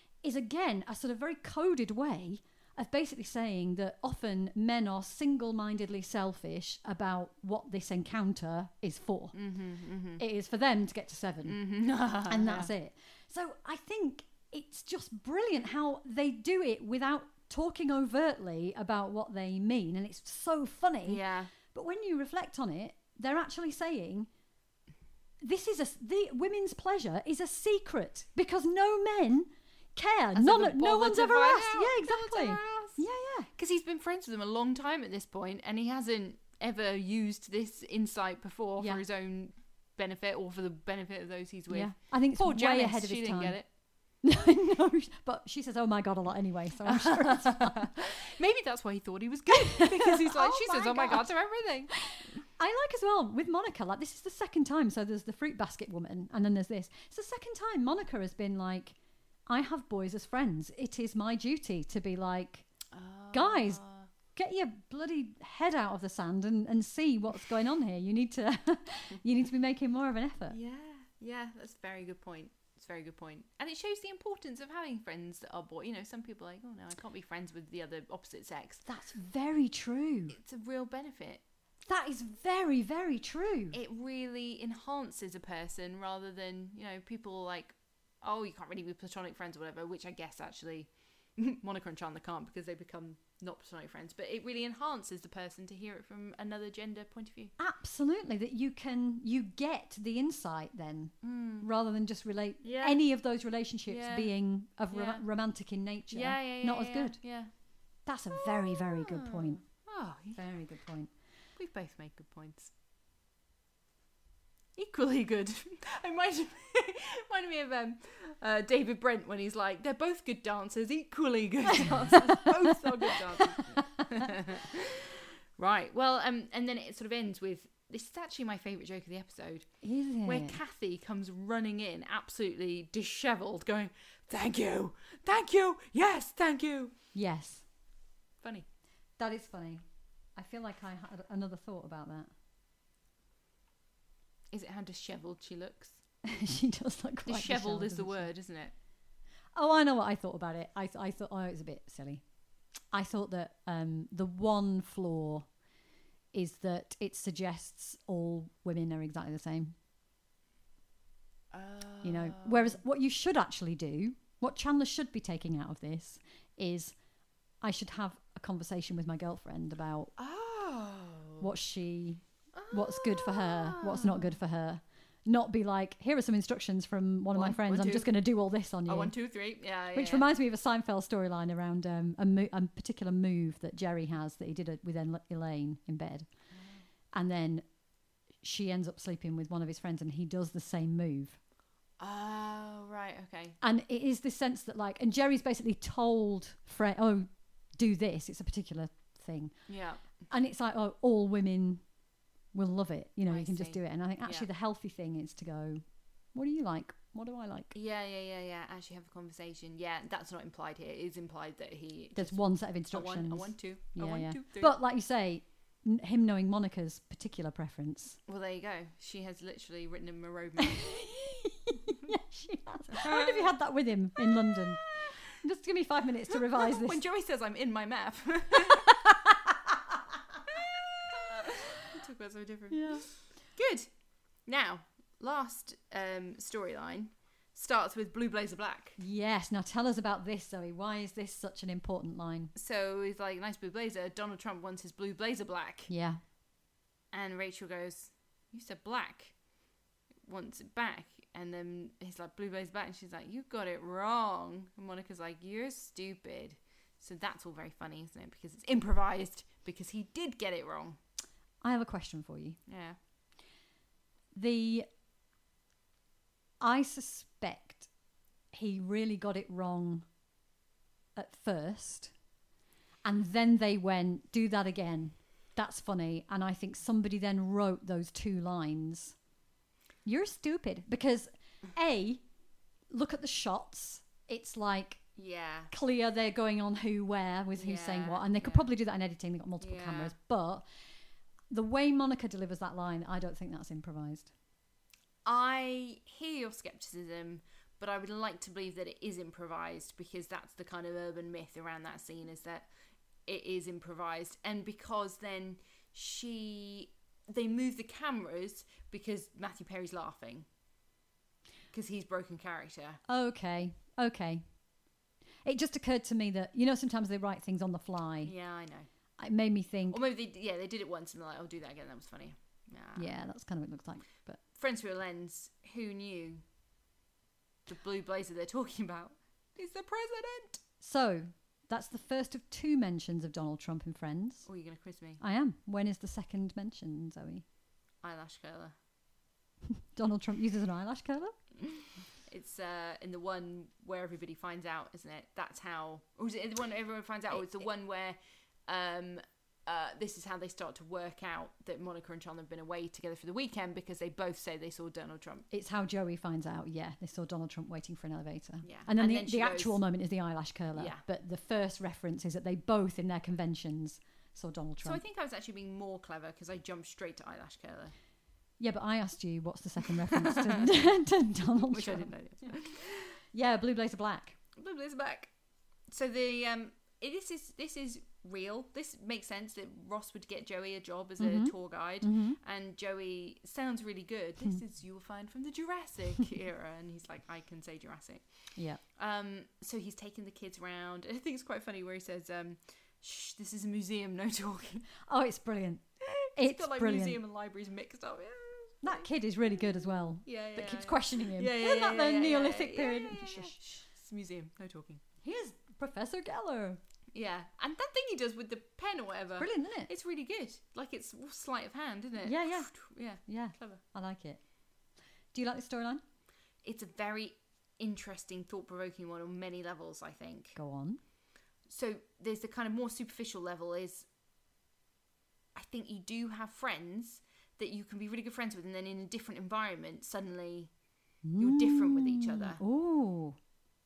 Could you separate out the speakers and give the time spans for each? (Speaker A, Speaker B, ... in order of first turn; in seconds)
Speaker A: 0.2-9.4, 10.2-11.6, 12.3-24.3, 25.4-33.5, 41.7-43.6, 44.2-47.9, 49.5-51.3, 51.9-59.0, 59.5-62.7, 63.3-63.8, 64.3-70.6, 78.8-80.4, 81.8-83.8, 97.6-107.2, 108.0-109.6, 110.3-111.1, 121.8-124.3, 129.8-130.6, 137.1-137.6, 139.2-139.8, 140.3-142.3, 146.2-148.3, 149.6-152.2, 152.9-155.5, 156.3-159.7, 162.0-166.9, 167.6-170.1, 171.4-179.1, 179.9-186.3, 187.1-187.6, 188.4-191.4, 193.6-199.5, 200.3-201.8, 202.5-205.8, 206.3-207.7, 212.1-218.2, 220.6-227.0, 229.1-229.5, 232.7-233.1, 239.0-242.5, 245.9-246.2, 261.6-262.6, 264.3-264.9, 266.6-267.9, 268.5-270.1, 271.1-272.1, 273.0-279.1, 280.0-282.2, 282.9-285.0, 285.7-290.6, 291.5-294.3, 313.1-314.4, 315.4-318.3, 319.2-320.0, 322.9-324.4, 330.8-334.5, 335.2-337.4, 339.9-341.4, 355.5-365.0, 368.6-372.1, 373.3-374.4, 381.2-382.4, 388.6-388.8, 395.1-395.8, 396.4-397.2, 398.8-403.6, 405.2-406.8, 409.4-409.9, 412.2-412.7, 413.3-414.4, 415.3-416.0, 420.6-421.0, 431.2-433.4
Speaker B: 9.3-10.2, 11.5-12.7, 21.1-21.5, 30.3-33.0, 33.5-43.7, 46.8-51.9, 62.9-64.1, 70.5-78.8, 80.3-81.4, 83.7-97.5, 101.2-101.7, 102.6-103.0, 103.9-104.3, 104.9-105.2, 106.1-107.5, 108.3-110.4, 111.5-112.7, 114.8-129.7, 130.2-136.9, 138.4-138.7, 144.5-146.0, 147.2-148.7, 161.5-162.8, 170.2-171.5, 172.5-174.4, 177.3-178.2, 178.9-180.3, 186.5-186.8, 192.0-193.6, 199.7-200.0, 203.3-204.5, 207.7-214.8, 218.3-220.9, 222.9-223.5, 224.3-224.7, 226.3-229.0, 230.4-233.9, 234.4-239.0, 242.5-245.9, 247.1-249.3, 250.2-261.0, 262.7-263.0, 285.1-285.7, 287.6-288.7, 289.6-290.1, 295.2-302.7, 303.2-310.5, 311.7-313.0, 318.2-318.9, 319.9-323.2, 324.5-326.4, 327.6-330.6, 334.4-335.2, 338.0-338.7, 341.6-355.4, 358.6-359.8, 360.7-361.0, 364.8-367.9, 370.1-370.7, 371.6-373.2, 374.6-375.3, 375.9-388.2, 388.9-394.9, 396.0-405.0, 407.1-413.8, 416.6-420.6, 421.6-424.1, 425.5-430.7, 431.4-432.6